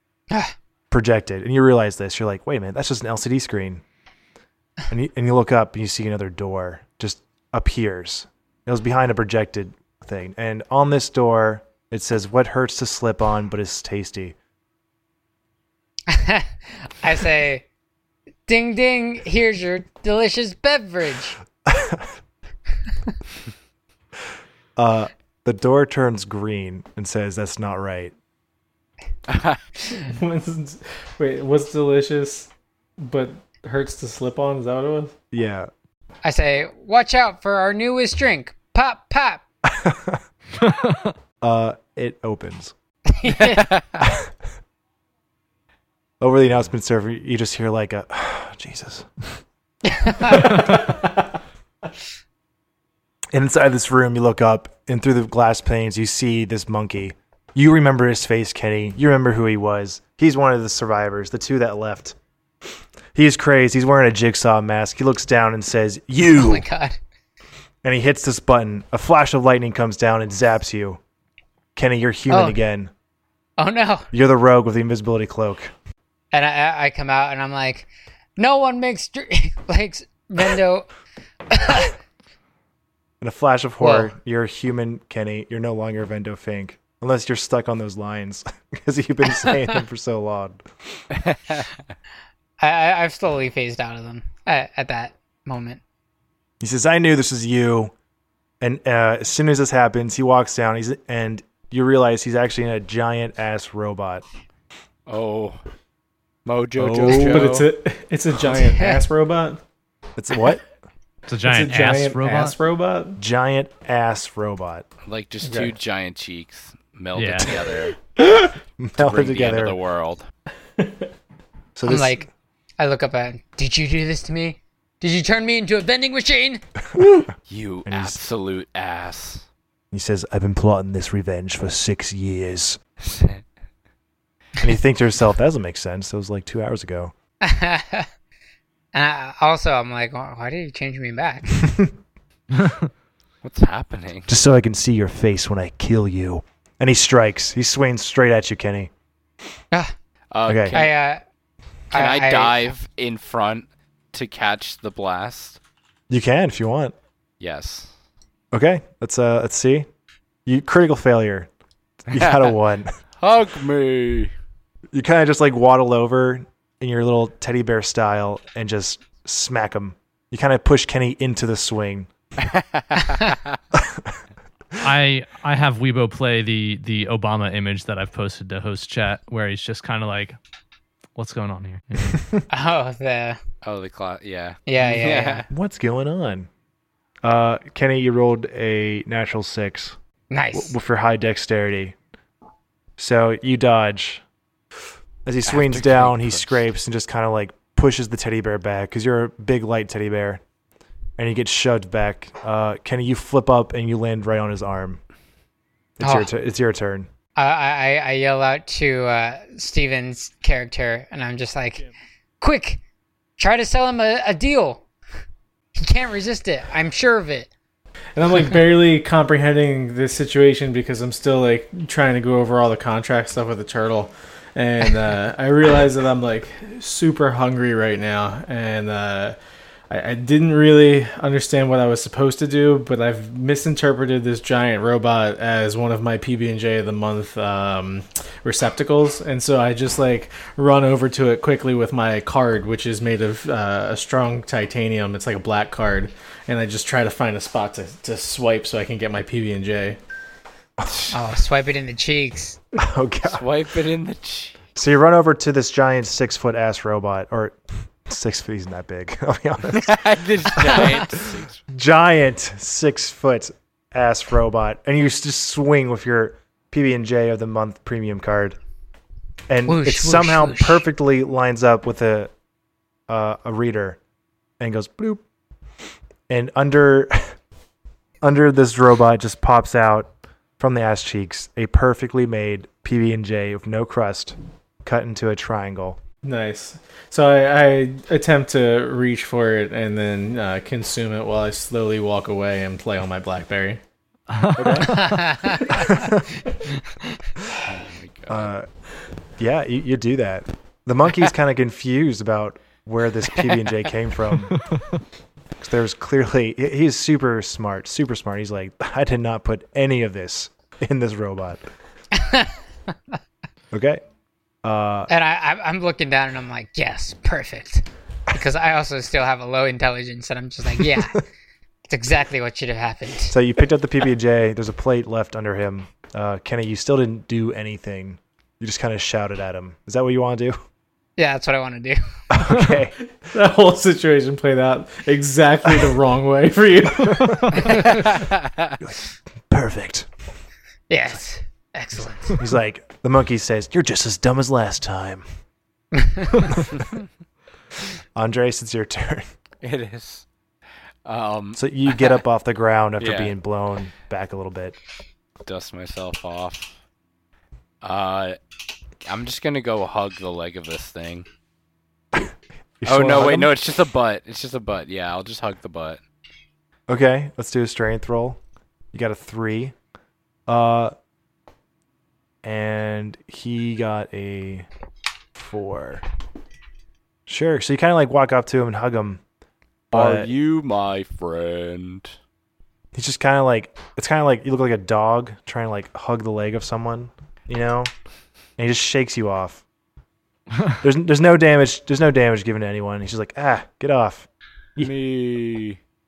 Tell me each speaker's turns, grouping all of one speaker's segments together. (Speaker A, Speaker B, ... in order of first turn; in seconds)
Speaker A: 0.9-3.8, 4.9-14.3, 21.6-22.1, 24.8-28.1, 35.3-35.7, 39.6-40.2, 41.4-42.7, 44.0-44.3, 46.2-49.1, 53.3-62.1, 63.1-66.7, 67.8-71.0, 71.8-72.9, 74.1-75.7, 83.2-90.6, 96.6-97.9, 98.6-104.2, 106.8-107.5, 110.2-110.6, 113.2-114.8, 118.8-119.8, 121.8-122.2, 127.8-128.2, 129.9-132.8, 134.6-137.1, 141.6-141.9, 144.3-148.9, 150.4-150.8, 156.1-156.9, 158.5-159.9, 160.4-161.5, 162.1-162.9, 164.9-172.1, 173.7-174.2, 182.1-182.4, 185.5-186.5, 187.2-189.9, 190.5-191.9, 193.0-194.2, 195.2-200.4, 201.2-205.0, 206.0-207.1, 250.8-251.1, 252.8-253.4, 254.8-260.0, 260.5-261.1, 261.7-268.6, 269.5-272.3, 273.1-274.0, 274.6-275.2, 276.3-277.3, 278.2-286.0, 294.6-295.0, 295.7-296.2, 298.3-298.7, 299.4-304.6, 305.6-311.6, 313.7-314.0, 314.6-315.1, 323.3-330.6, 332.3-332.9, 337.1-337.9, 338.8-340.1, 342.3-345.2, 348.1-349.3, 351.5-354.8, 362.1-363.5, 366.9-368.4, 368.9-369.7, 370.5-370.9, 372.4-374.7, 375.3-376.0, 377.3-379.2, 379.9-380.3, 382.9-387.9, 388.6-389.6, 390.8-394.9
Speaker B: 16.1-17.6, 18.5-21.4, 36.2-39.4, 43.1-43.7, 49.9-50.5, 66.3-67.0, 72.3-72.6, 73.6-74.1, 76.3-80.9, 81.5-81.9, 83.8-84.1, 92.6-95.8, 121.8-122.3, 122.8-126.6, 137.4-138.1, 138.9-141.6, 150.7-151.2, 151.9-152.7, 182.5-183.4, 184.7-185.4, 190.3-190.7, 206.0-206.3, 207.3-211.9, 212.4-212.8, 213.4-214.8, 215.8-217.5, 251.1-252.6, 269.7-270.8, 294.8-296.1, 312.1-312.5, 315.1-321.2, 321.9-323.4, 331.2-332.0, 340.9-342.4, 346.0-346.5
Speaker C: 29.3-29.6, 43.4-44.0, 105.1-105.6, 106.5-107.7, 115.0-118.0, 119.0-120.2, 127.5-129.4, 133.0-133.4, 143.4-144.3, 150.3-150.9, 151.9-155.6, 157.4-157.9, 162.1-162.5, 163.2-164.3, 172.4-173.6, 183.6-185.5, 195.4-196.6, 253.2-254.6, 259.7-261.6, 297.6-298.5, 337.9-338.7, 349.6-350.2, 351.0-352.1, 353.0-353.3, 355.4-356.7, 357.8-358.4, 359.1-361.2, 362.8-366.0, 379.9-382.1, 394.8-395.8
Speaker D: 29.9-35.1, 50.4-51.1, 106.9-109.6, 111.4-113.2, 115.4-115.7, 120.8-121.1, 127.0-127.2, 218.2-229.4, 229.9-250.0, 286.2-293.8, 333.3-337.4
Speaker E: 40.6-41.1, 111.3-112.5, 117.1-117.6, 142.6-142.8, 174.8-180.3, 181.2-182.2, 294.3-295.4, 337.4-337.6